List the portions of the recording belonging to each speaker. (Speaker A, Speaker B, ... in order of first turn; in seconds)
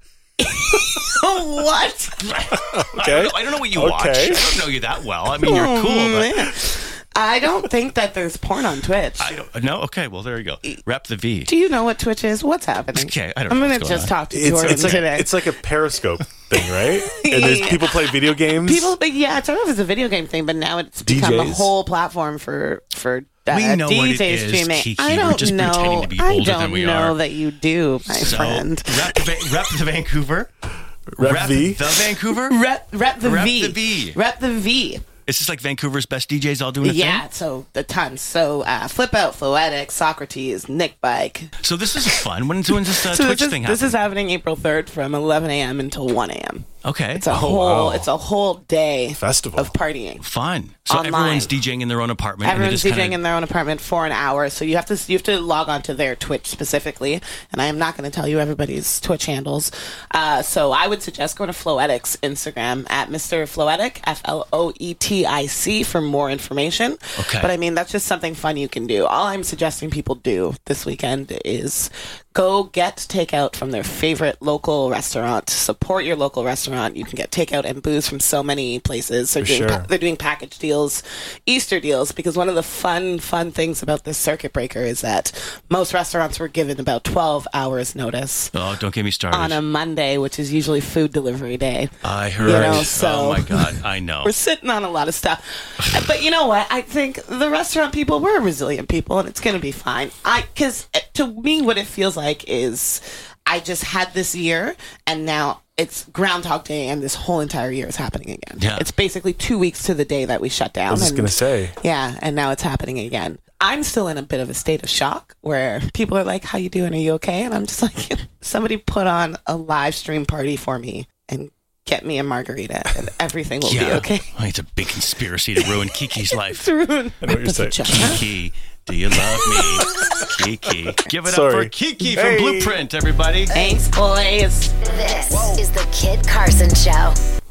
Speaker A: 0.4-2.6, 5.4-9.3, 11.5-15.5, 16.8-29.2, 32.3-35.0, 36.8-41.5, 43.0-50.2, 50.9-51.5, 52.4-88.5, 89.3-91.9, 92.4-124.3, 125.6-128.2, 129.5-130.2, 133.5-134.8
Speaker B: 2.3-6.4, 9.2-11.5, 12.9-15.0, 23.5-27.2, 28.1-30.5, 31.2-32.6, 33.2-34.2, 35.3-37.2, 41.6-44.0, 46.8-47.3, 50.2-53.2, 67.2-67.5, 88.5-89.6, 92.0-94.3, 108.6-108.9, 123.6-126.7, 127.9-133.6
Speaker C: 2.5-4.5, 14.3-19.0, 21.1-21.7, 31.2-31.8, 47.3-48.1, 49.2-49.7, 79.4-79.9, 92.6-92.9, 110.9-111.8, 127.2-128.2, 131.2-132.8
Speaker D: 134.8-137.2